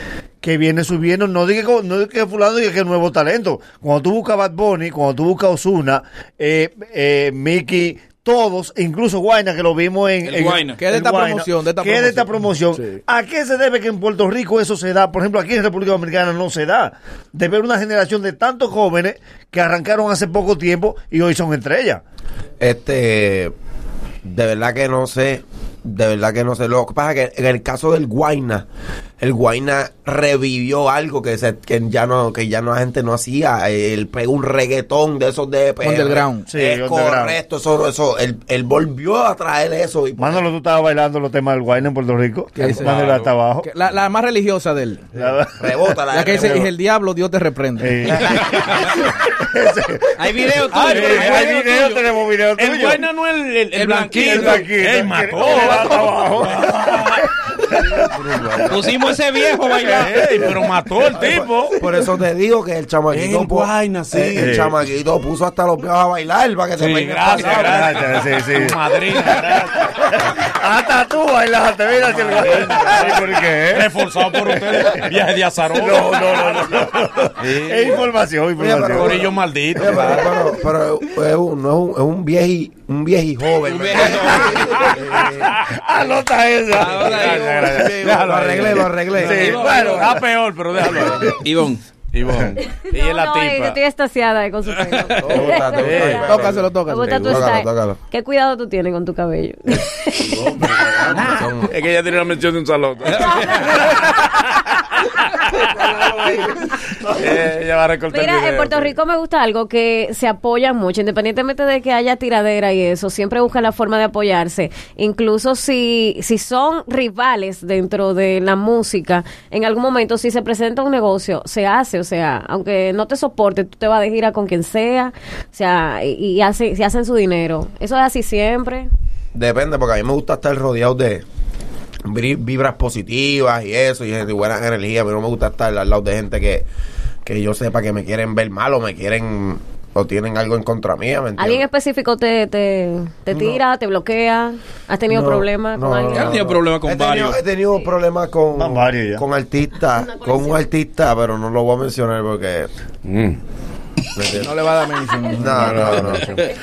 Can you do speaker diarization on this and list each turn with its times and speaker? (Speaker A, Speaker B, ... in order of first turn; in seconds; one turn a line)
Speaker A: 0.4-22.0
Speaker B: 10.2-10.8
Speaker C: 10.8-13.0
Speaker D: 22.6-23.5
Speaker D: 24.2-28.6
Speaker D: 29.2-40.4
Speaker C: 35.8-36.5
Speaker A: 36.5-37.4
Speaker A: 40.2-43.7
Speaker C: 42.5-43.0
Speaker E: 42.8-43.4
Speaker C: 43.5-45.1
Speaker A: 45.1-46.7
Speaker D: 45.6-46.7
Speaker C: 46.1-48.9
Speaker A: 47.8-53.0
Speaker B: 50.2-52.0
Speaker E: 50.7-51.8
Speaker E: 52.5-58.9
Speaker B: 53.7-54.7
Speaker A: 54.1-58.8
Speaker C: 55.6-56.3
Speaker B: 58.7-60.1
Speaker E: 59.7-61.8
Speaker A: 60.0-61.1
Speaker D: 61.1-67.7
Speaker E: 63.1-64.6
Speaker A: 64.3-64.8
Speaker E: 66.8-69.9
Speaker A: 67.3-75.1
Speaker E: 72.0-78.1
Speaker A: 75.7-79.2
Speaker D: 78.6-85.5
Speaker E: 78.9-80.3
Speaker B: 83.6-84.7
Speaker A: 84.5-88.1
Speaker B: 86.7-87.7
Speaker E: 86.9-91.3
Speaker C: 87.7-88.8
Speaker D: 88.2-89.5
Speaker A: 89.1-90.2
Speaker B: 89.2-90.1
Speaker A: 90.7-91.4
Speaker B: 91.4-91.8
Speaker E: 92.1-93.8
Speaker F: 92.9-101.5
Speaker D: 95.0-98.0
Speaker E: 95.6-96.3
Speaker C: 96.2-97.5
Speaker D: 100.7-101.7
Speaker E: 101.6-105.7
Speaker C: 105.7-106.5
Speaker E: 107.1-109.0
Speaker F: 108.1-128.9
Speaker D: 129.3-131.2
Speaker D: 132.1-136.7
Speaker D: 137.2-141.7
Speaker F: 141.4-146.4
Speaker D: 143.3-143.6
Speaker D: 145.1-152.7
Speaker B: 146.1-147.4
Speaker A: 148.6-149.2
Speaker E: 153.0-153.4
Speaker D: 154.1-154.5
Speaker C: 154.3-155.9
Speaker D: 155.3-156.3
Speaker E: 155.5-156.5